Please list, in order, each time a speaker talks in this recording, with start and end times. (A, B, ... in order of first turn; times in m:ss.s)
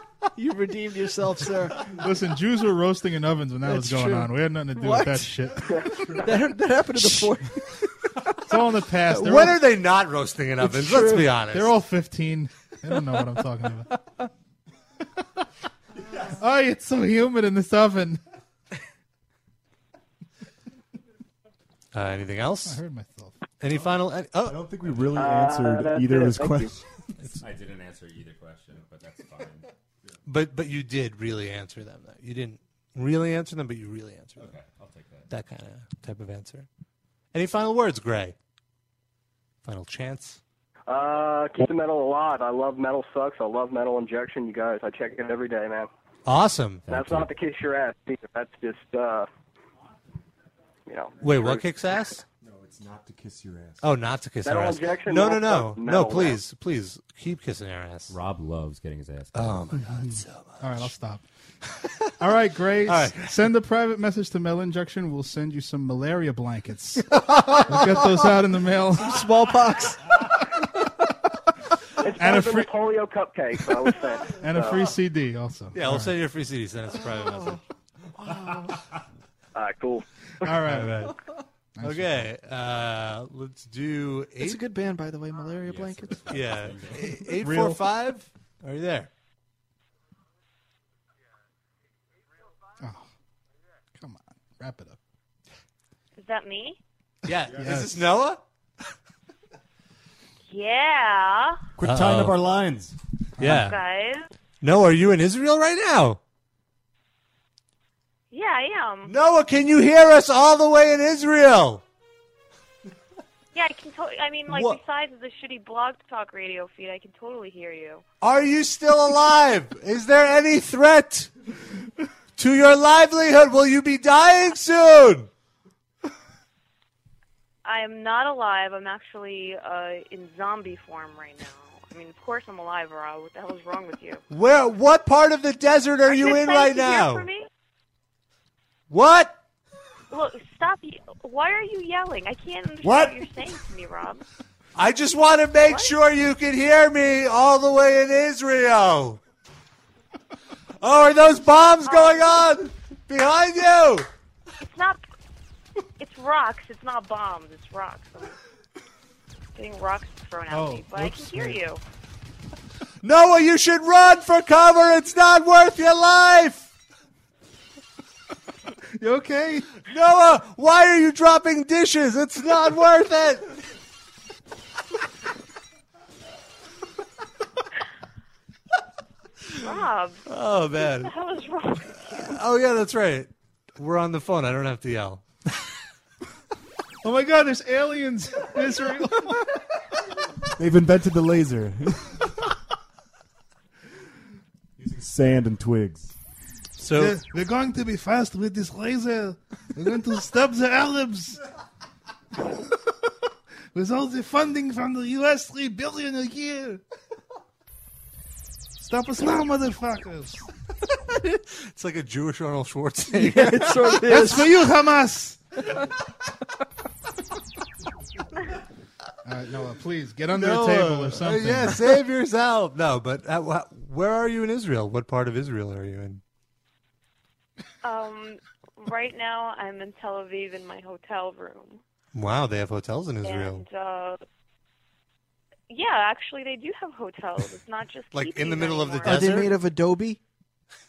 0:00.4-0:01.8 A
0:01.9-0:06.2 B
0:03.6-0:05.3 A
0:06.0-0:08.3 A
0:07.0-0:07.3 B
0:08.4-0:09.6 B
0:09.1-0:11.8 C
0:10.6-0:11.4 A
0:11.5-0:13.9 B
0:16.3-0:18.2 B
0:21.9-0:22.8 C
0:22.7-0:23.4 B
0:23.6-0:24.6 C
0:24.4-0:26.8 D
0:25.1-0:26.7 E
0:27.4-0:29.7 F
0:30.3-0:34.5 C
0:34.4-0:35.3 F
0:35.3-0:36.7 C
0:37.3-0:38.4 C
0:39.6-0:40.4 C
0:40.9-0:45.9 E
0:46.3-0:46.8 C
0:46.9-0:47.3 F
0:46.9-0:49.3 E
0:50.9-0:51.7 E
0:51.2-0:52.2 C
0:52.4-0:53.9 D
0:53.8-0:58.1 C
0:54.4-0:56.4 E
0:58.1-0:59.8 F
0:59.4-1:00.9 C
1:00.6-1:01.2 B
1:01.8-1:02.1 C
1:02.2-1:09.2 B
1:02.8-1:03.4 C
1:07.1-1:08.3 A
1:09.0-1:10.2 A
1:12.0-1:14.9 E
1:12.2-1:12.7 B
1:14.4-1:16.2 B
1:15.7-1:17.6 C
1:17.1-1:17.6 A
1:18.2-1:18.7 A
1:19.6-1:20.0 E
1:20.4-1:21.1 B
1:20.6-1:21.2 C
1:21.8-1:22.3 B
1:21.8-1:24.6 C
1:24.4-1:26.3 A
1:25.6-1:27.2 F
1:26.3-1:29.1 C
1:27.4-1:27.8 D
1:32.8-1:33.1 B
1:34.0-1:35.0 B
1:36.2-1:36.8 G
1:37.2-1:38.4 C
1:37.5-1:38.0 B
1:40.5-1:41.6 G
1:41.8-1:43.0 D
1:41.8-1:42.4 C
1:43.4-1:43.7 B
1:43.4-1:43.8 C
1:43.5-1:44.3 G
1:44.6-1:46.2 C
1:48.3-1:49.1 G
1:49.1-1:51.8 C
1:53.5-1:58.0 G
1:54.5-1:54.8 C
1:58.2-2:01.3 C
2:02.4-2:05.3 C
2:07.6-2:14.2 G
2:14.3-2:17.3 C
2:16.1-2:17.5 G
2:18.9-2:19.4 C
2:20.1-2:24.2 G
2:22.8-2:23.1 C
2:24.8-2:29.2 C
2:25.7-2:26.0 G
2:30.8-2:34.1 C
2:31.8-2:32.4 G
2:34.6-2:35.0 G
2:36.0-2:38.3 G
2:39.6-2:41.8 G
2:40.5-2:41.6 B
2:43.0-2:46.7 C
2:49.0-2:49.8 B
2:49.9-2:53.5 C
2:59.6-3:00.2 G
3:00.3-3:01.1 C
3:01.0-3:02.4 G
3:02.0-3:05.2 C
3:07.0-3:09.4 B
3:10.6-3:12.2 D
3:14.8-3:16.2 D
3:16.8-3:17.2 C
3:16.9-3:21.4 B
3:23.7-3:26.8 B
3:28.8-3:30.5 B
3:31.6-3:34.0 C
3:33.1-3:34.6 A
3:34.1-3:35.4 B
3:39.2-3:42.0 B
3:40.3-3:46.2 C
3:47.8-3:51.8 G
3:52.1-3:53.6 C
3:53.2-3:54.2 G
3:55.7-3:59.3 G
3:58.1-3:59.6 C
3:59.0-4:00.2 A